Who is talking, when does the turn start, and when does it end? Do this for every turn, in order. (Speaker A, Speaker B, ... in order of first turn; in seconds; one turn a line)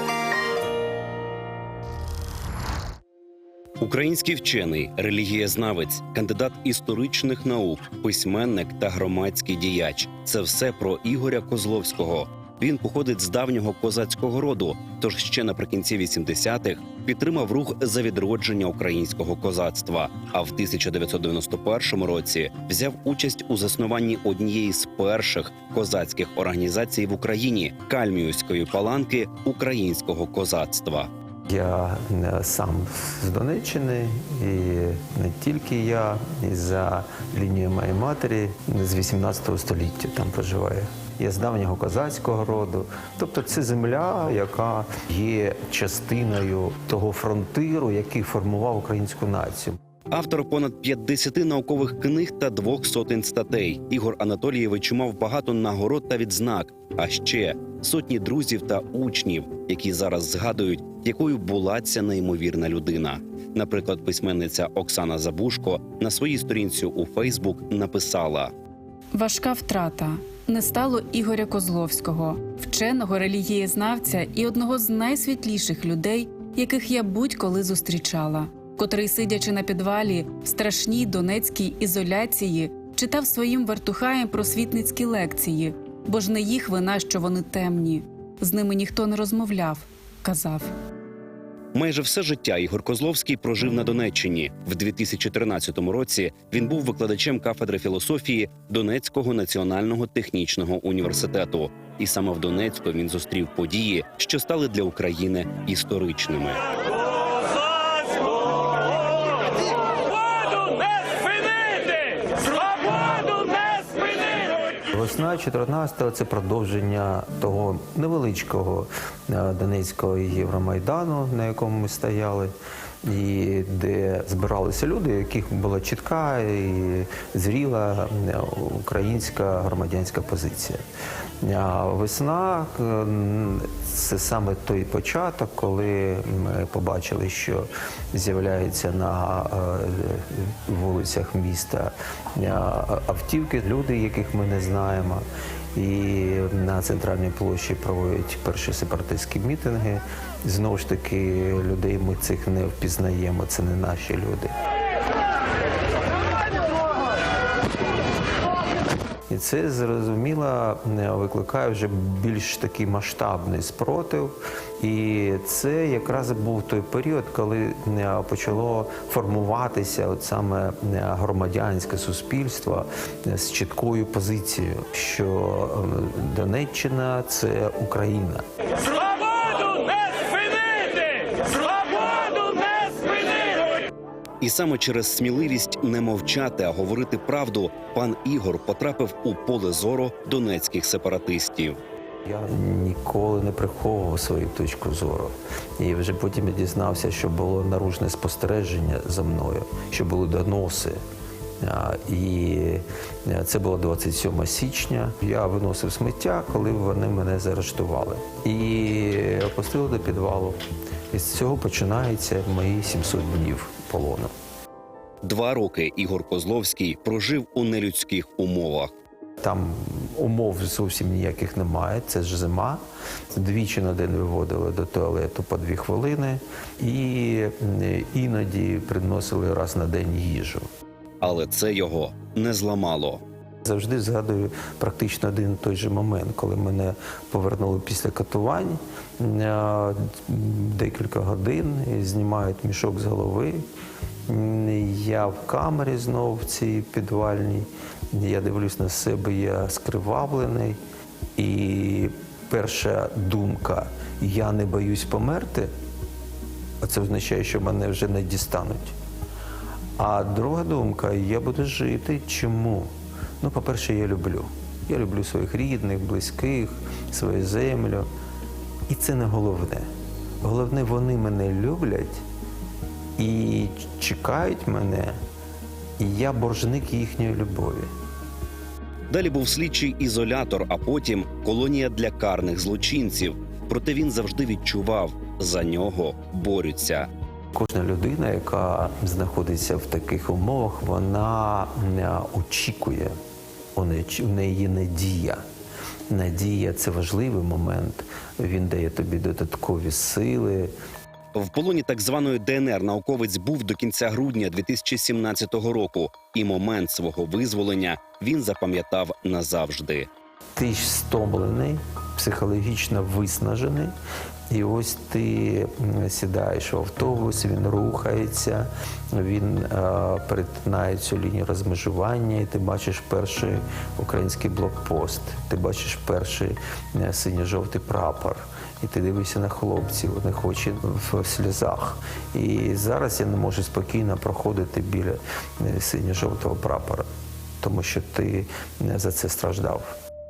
Speaker A: 3.8-31.1
Speaker B: 31.5-49.8
Speaker A: 50.1-68.5
Speaker C: 69.1-90.7
Speaker A: 91.7-106.7
Speaker B: 114.9-122.5
Speaker B: 123.0-130.8
Speaker B: 131.4-154.5
Speaker B: 159.3-178.4
Speaker A: 184.4-191.8
Speaker B: 192.2-201.0
Speaker B: 201.6-210.6
Speaker B: 211.1-214.3
Speaker A: 215.2-218.9
Speaker B: 219.4-230.7
Speaker A: 231.2-233.2
Speaker B: 233.6-243.6
Speaker B: 244.3-250.8
Speaker B: 251.3-255.7
Speaker B: 256.8-258.9
Speaker B: 260.0-268.1
Speaker B: 268.9-269.9
Speaker B: 270.4-272.2
Speaker B: 273.2-275.1
Speaker B: 276.0-277.9
Speaker A: 279.1-287.1
Speaker B: 287.5-293.1
Speaker B: 293.7-295.4
Speaker B: 296.1-300.7
Speaker A: 301.3-310.1
Speaker B: 310.6-313.9
Speaker B: 314.5-337.1
Speaker B: 337.6-339.9